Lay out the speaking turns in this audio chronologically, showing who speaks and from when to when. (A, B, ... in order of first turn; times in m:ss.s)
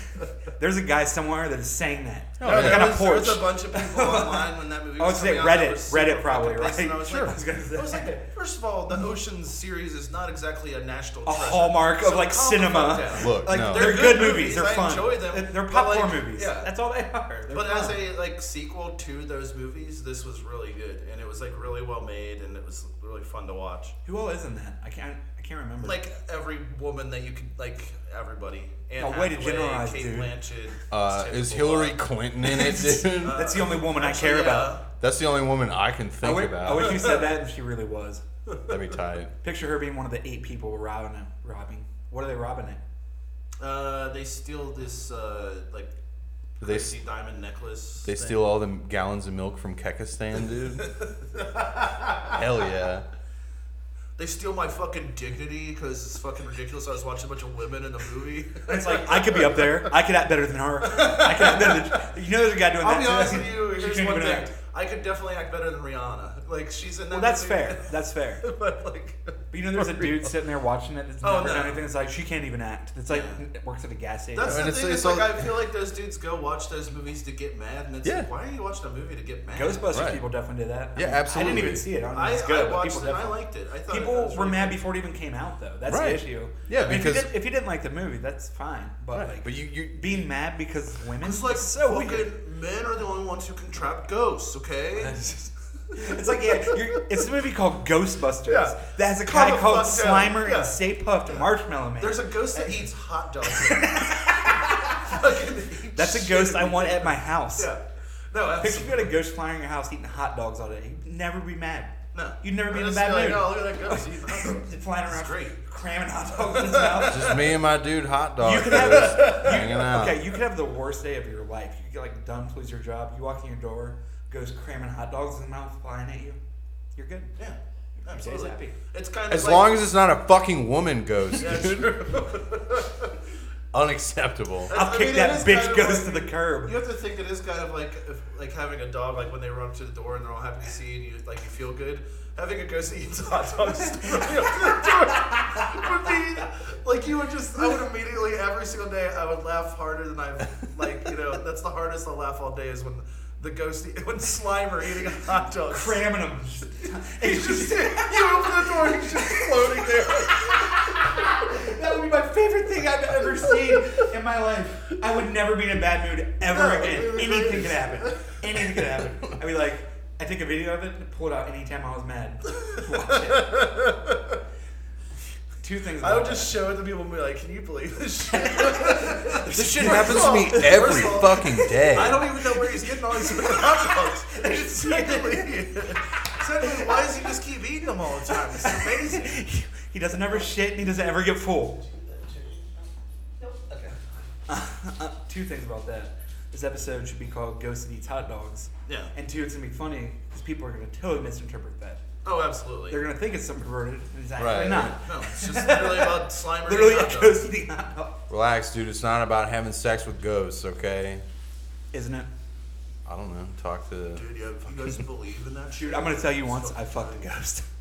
0:00.5-0:08.3 A
0:02.4-0:03.0 B
0:02.4-0:16.7 C
0:07.1-0:07.3 B
0:11.3-0:18.0 A
0:13.2-0:14.1 B
0:17.5-0:24.0 C
0:24.1-0:26.0 A
0:25.8-0:32.0 C
0:29.0-0:30.3 A
0:30.9-0:33.4 B
0:32.5-0:34.8 A
0:33.2-0:34.9 C
0:35.0-0:37.0 B
0:36.2-0:38.2 A
0:36.8-0:37.3 C
0:38.5-0:38.8 C
0:38.7-0:39.3 B
0:39.4-0:42.8 A
0:43.6-0:45.9 C
0:46.6-0:48.4 C
0:46.6-0:47.0 B
0:48.0-0:50.9 B
0:50.9-0:52.4 C
0:52.2-0:53.1 B
0:54.2-0:59.9 C
0:58.7-1:04.5 A
1:00.8-1:02.0 C
1:02.8-1:10.3 C
1:07.1-1:08.5 A
1:09.5-1:14.7 A
1:11.2-1:11.8 C
1:13.1-1:13.4 C
1:14.3-1:19.9 C
1:14.4-1:15.5 B
1:18.0-1:18.3 B
1:19.5-1:32.3 A
1:19.9-1:20.3 B
1:21.0-1:21.9 B
1:22.1-1:24.8 C
1:25.9-1:27.3 B
1:29.1-1:30.2 B
1:31.2-1:35.2 C
1:35.0-1:42.9 A
1:38.5-1:49.1 C
1:43.5-1:45.2 A
1:45.9-1:47.7 A
1:48.6-1:57.4 A
1:52.1-1:55.6 C
1:56.5-1:57.2 C
1:57.1-2:00.3 B
1:58.4-2:06.4 A
1:58.7-1:59.6 C
2:07.0-2:07.3 A
2:07.4-2:09.8 C
2:08.0-2:08.8 A
2:09.3-2:12.0 B
2:11.4-2:13.1 C
2:13.7-2:14.7 B
2:14.7-2:36.0 C
2:14.7-2:16.8 A
2:35.7-2:53.5 A
2:37.2-2:40.6 C
2:46.4-2:48.4 C
2:52.6-2:54.4 C
2:55.6-2:56.6 A
2:56.0-3:09.4 C
2:58.3-3:06.0 A
2:59.5-3:02.3 B
3:06.6-3:07.2 A
3:08.4-3:11.9 A
3:11.9-3:12.7 C
3:13.7-3:14.0 C
3:14.5-3:22.0 A
3:18.9-3:19.1 C
3:22.2-3:23.0 C
3:22.9-3:28.2 A
3:24.4-3:25.0 B
3:24.8-3:27.5 C
3:28.3-3:31.2 B
3:31.9-3:32.3 A
3:33.1-3:34.3 B
3:34.2-3:37.2 C
3:35.7-3:37.6 A